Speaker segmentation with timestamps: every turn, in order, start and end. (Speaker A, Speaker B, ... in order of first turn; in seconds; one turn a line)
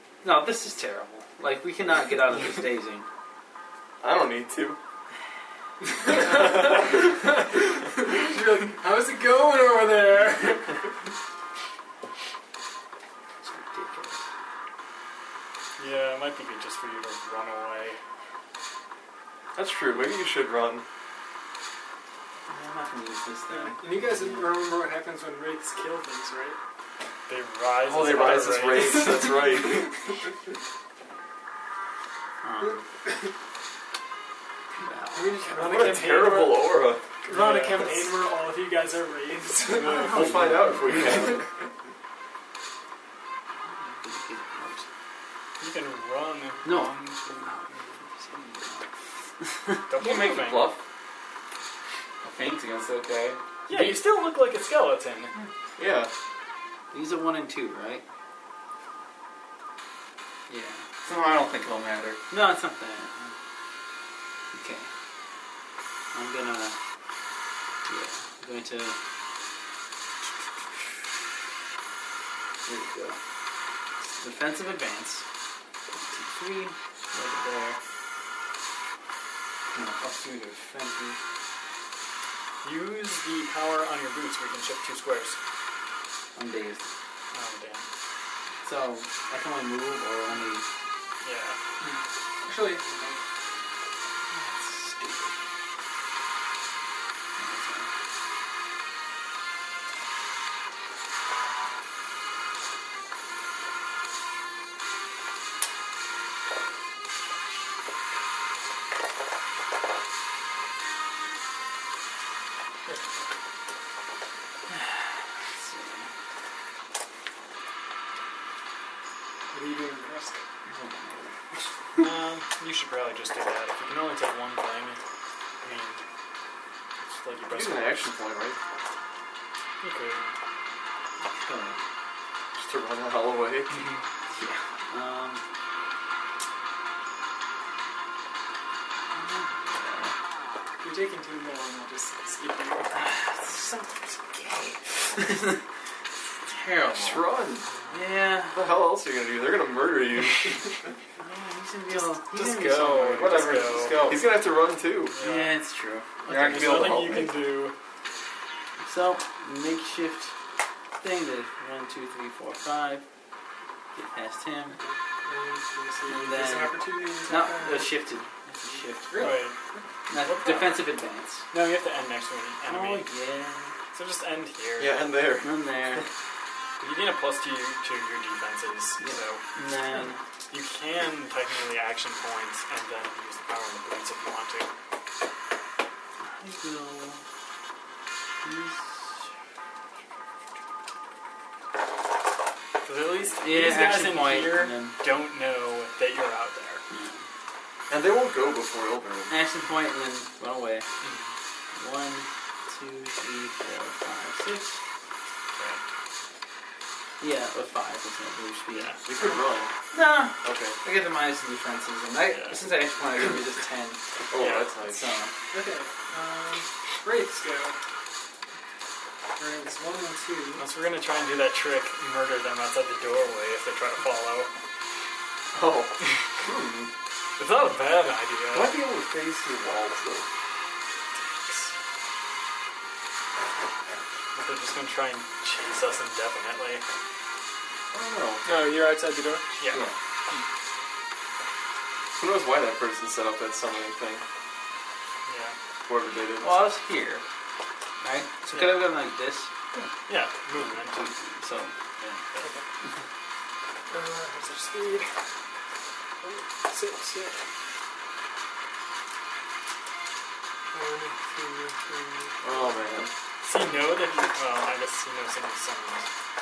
Speaker A: 0.2-3.0
Speaker B: 4.0-4.8
Speaker C: 5.8-10.9
Speaker A: 13.4-14.2
Speaker D: 15.8-18.0
Speaker B: 19.5-20.8
Speaker A: 22.5-24.5
Speaker C: 23.5-26.6
Speaker D: 27.3-29.2
Speaker B: 27.8-29.9
Speaker C: 28.6-29.9
Speaker A: 32.4-32.8
Speaker A: 34.8-35.5
Speaker C: 35.1-36.7
Speaker B: 35.5-37.0
Speaker C: 37.2-40.4
Speaker D: 37.3-38.2
Speaker A: 39.8-40.6
Speaker B: 39.9-41.4
Speaker C: 41.1-41.4
Speaker A: 43.6-44.8
Speaker D: 45.6-47.9
Speaker A: 46.6-48.9
Speaker A: 49.4-49.8
Speaker D: 49.9-50.7
Speaker B: 50.0-50.8
Speaker E: 50.4-50.6
Speaker E: 52.2-53.4
Speaker D: 53.7-55.3
Speaker A: 53.7-54.0
Speaker B: 55.8-56.1
Speaker A: 56.9-58.0
Speaker A: 60.5-60.9
Speaker E: 61.0-62.2
Speaker A: 62.3-63.4
Speaker A: 64.5-64.9
Speaker A: 66.1-66.8
Speaker A: 67.8-69.0
Speaker A: 72.6-73.2
Speaker A: 74.2-75.2
Speaker A: 75.9-77.8
Speaker A: 79.7-81.2
Speaker D: 82.6-85.4
Speaker A: 86.3-86.9
Speaker D: 87.3-87.9
Speaker A: 88.6-90.7
Speaker D: 91.2-91.6
Speaker C: 91.8-93.2
Speaker A: 94.3-95.4
Speaker A: 97.4-97.9
Speaker A: 114.7-116.1
Speaker C: 119.5-120.4
Speaker A: 120.7-121.6
Speaker D: 122.0-125.0
Speaker D: 125.6-126.0
Speaker D: 127.0-128.0
Speaker B: 127.5-128.6
Speaker D: 129.8-130.3
Speaker A: 131.2-131.8
Speaker B: 132.5-133.8
Speaker D: 133.7-134.1
Speaker A: 134.3-135.4
Speaker A: 139.1-140.1
Speaker C: 140.8-143.0
Speaker A: 142.9-145.6
Speaker A: 146.4-147.2
Speaker B: 146.9-147.7
Speaker D: 147.8-148.0
Speaker A: 147.9-148.6
Speaker B: 148.5-150.6
Speaker A: 151.2-153.6
Speaker D: 151.9-154.1
Speaker E: 153.1-154.2
Speaker B: 154.0-155.2
Speaker D: 155.1-155.6
Speaker A: 155.2-157.0
Speaker E: 156.3-157.4
Speaker D: 156.3-157.7
Speaker A: 158.8-160.3
Speaker A: 160.9-163.0
Speaker A: 163.9-164.8
Speaker C: 164.7-168.0
Speaker A: 166.1-169.2
Speaker C: 169.1-169.9
Speaker D: 169.2-169.5
Speaker A: 170.1-171.4
Speaker D: 170.1-170.9
Speaker D: 171.5-173.1
Speaker A: 172.6-173.7
Speaker D: 173.9-175.0
Speaker B: 174.8-176.0
Speaker A: 175.4-176.0
Speaker D: 176.8-179.4
Speaker A: 179.0-180.2
Speaker D: 180.5-184.7
Speaker A: 186.2-187.2
Speaker A: 188.4-189.2
Speaker D: 192.8-196.8
Speaker A: 193.4-195.0
Speaker A: 196.9-197.2
Speaker B: 197.9-199.3
Speaker A: 199.3-200.8
Speaker D: 201.0-201.3
Speaker A: 201.7-204.8
Speaker A: 207.2-208.9
Speaker D: 208.7-209.0
Speaker B: 209.0-209.7
Speaker A: 209.9-214.0
Speaker B: 210.4-210.8
Speaker D: 212.3-212.7
Speaker B: 214.3-215.0
Speaker D: 214.4-214.8
Speaker A: 214.8-215.3
Speaker C: 215.5-217.8
Speaker C: 219.4-220.7
Speaker D: 220.6-224.5
Speaker B: 225.5-226.9
Speaker D: 227.4-228.8
Speaker B: 228.5-230.2
Speaker D: 231.1-231.7
Speaker D: 234.3-236.8
Speaker B: 237.9-238.6
Speaker C: 238.4-239.4
Speaker D: 239.6-240.4
Speaker B: 242.2-244.2
Speaker D: 245.2-245.6
Speaker B: 245.8-246.6
Speaker A: 246.4-247.2
Speaker A: 248.0-249.5
Speaker D: 248.5-248.8
Speaker D: 250.1-251.0
Speaker E: 250.9-251.7
Speaker D: 252.3-252.6
Speaker C: 253.9-255.1
Speaker C: 256.2-257.4
Speaker C: 260.7-262.8
Speaker B: 262.4-263.1
Speaker D: 263.4-266.1
Speaker C: 263.6-264.3